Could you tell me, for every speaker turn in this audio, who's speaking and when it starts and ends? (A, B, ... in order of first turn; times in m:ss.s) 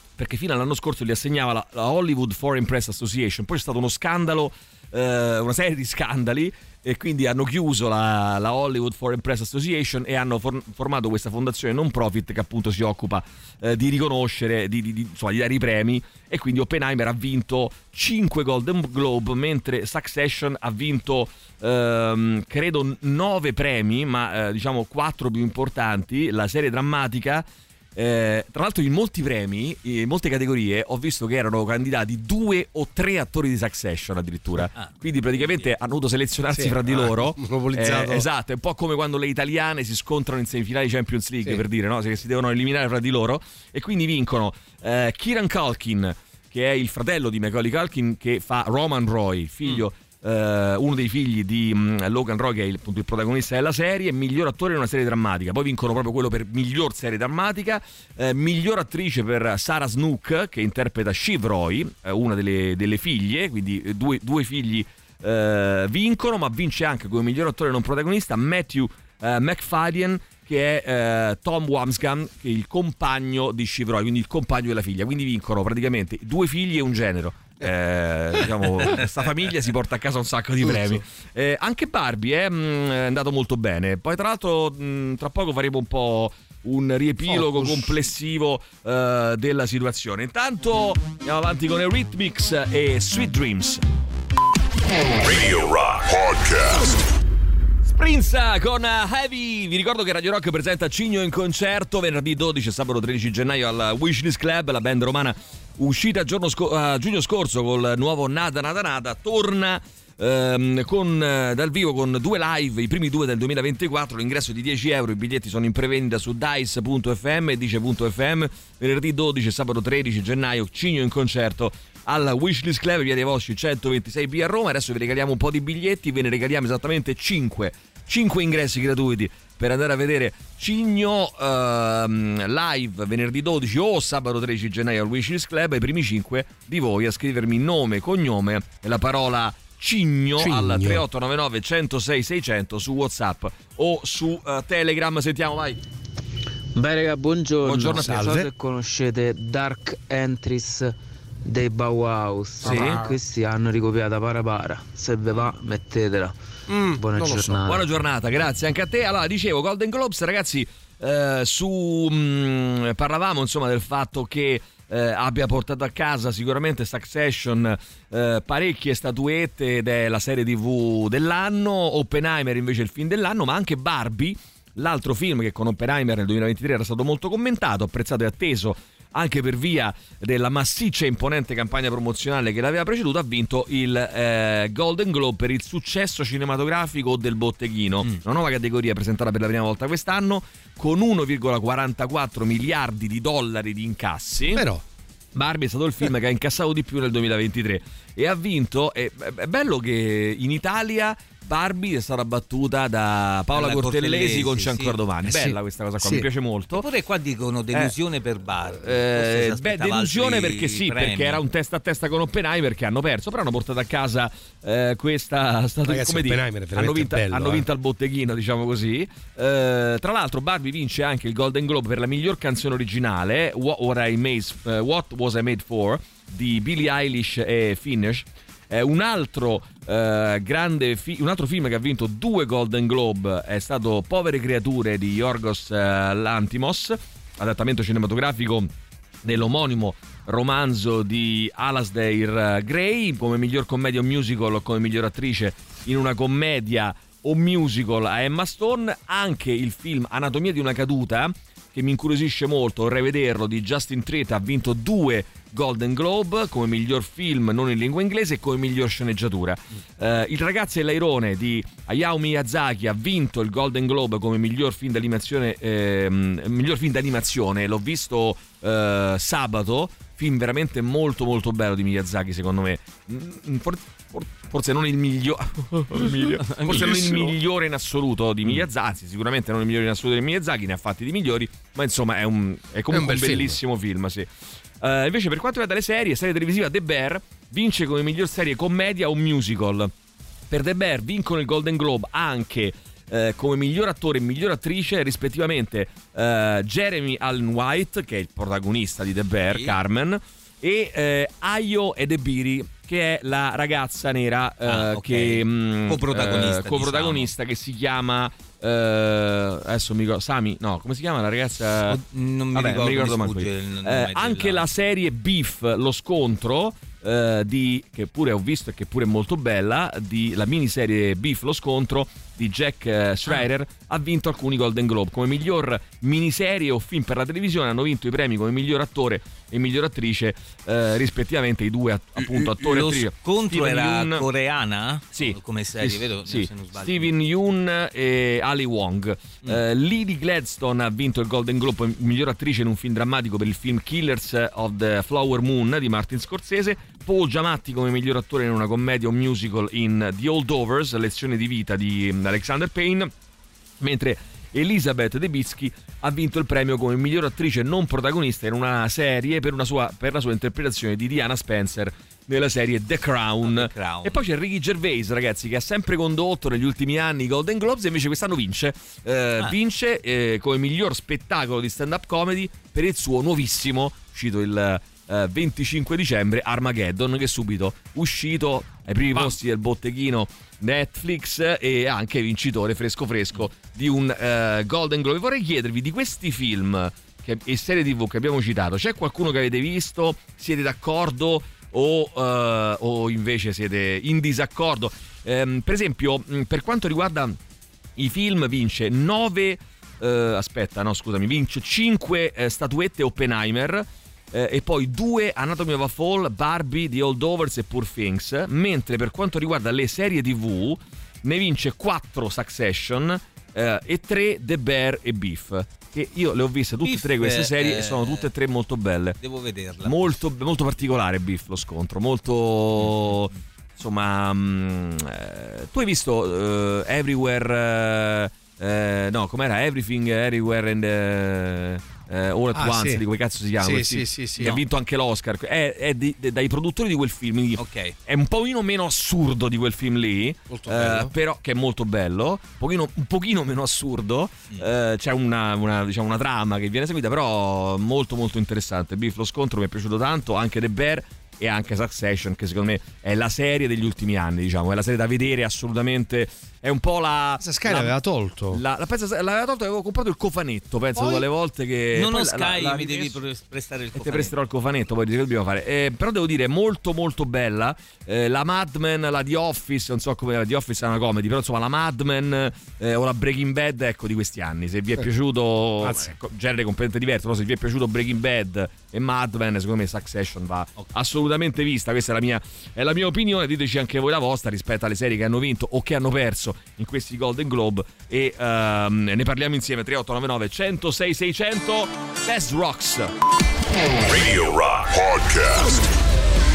0:00.2-1:33.8 A
0:36.5-0:38.2 B
1:20.6-1:21.0 B
1:27.2-1:28.1 B
1:35.2-1:37.0 C
1:37.8-2:25.8 A
2:20.4-2:21.0 B
2:26.7-2:37.9 D
2:27.6-2:28.4 A
2:27.9-2:28.5 B
2:32.6-2:33.1 B
2:32.6-2:33.0 A
2:36.7-2:37.6 B
2:37.6-3:14.6 A
3:14.5-3:14.8 B
3:15.3-3:26.9 A
3:23.5-3:25.0 E
3:25.2-3:26.3 B
3:26.7-3:31.4 E
3:28.8-3:58.7 A
3:35.8-3:37.7 B
3:59.2-4:44.3 A
4:36.4-4:37.2 E
4:42.9-4:43.6 B
4:44.8-4:49.9 A
4:50.5-5:12.0 A
4:59.5-4:59.7 E
5:04.6-5:07.3 E
5:11.8-5:14.6 E
5:12.5-5:34.2 A
5:32.2-5:37.1 E
5:35.1-5:53.1 A
5:53.8-6:37.4 A
6:03.4-6:04.2 E
6:38.0-6:59.2 A
6:56.8-6:58.3 E
6:59.2-7:00.2 E
6:59.8-7:37.9 A
7:02.8-7:03.1 E
7:12.5-7:13.0 B
7:13.6-7:14.5 B
7:17.6-7:17.9 E
7:20.5-7:21.1 B
7:37.4-7:38.6 B
7:38.5-7:43.2 A
7:40.9-7:41.2 B
7:41.9-7:44.3 E
7:43.9-8:13.1 A
7:55.8-7:56.2 B
8:14.0-8:15.8 C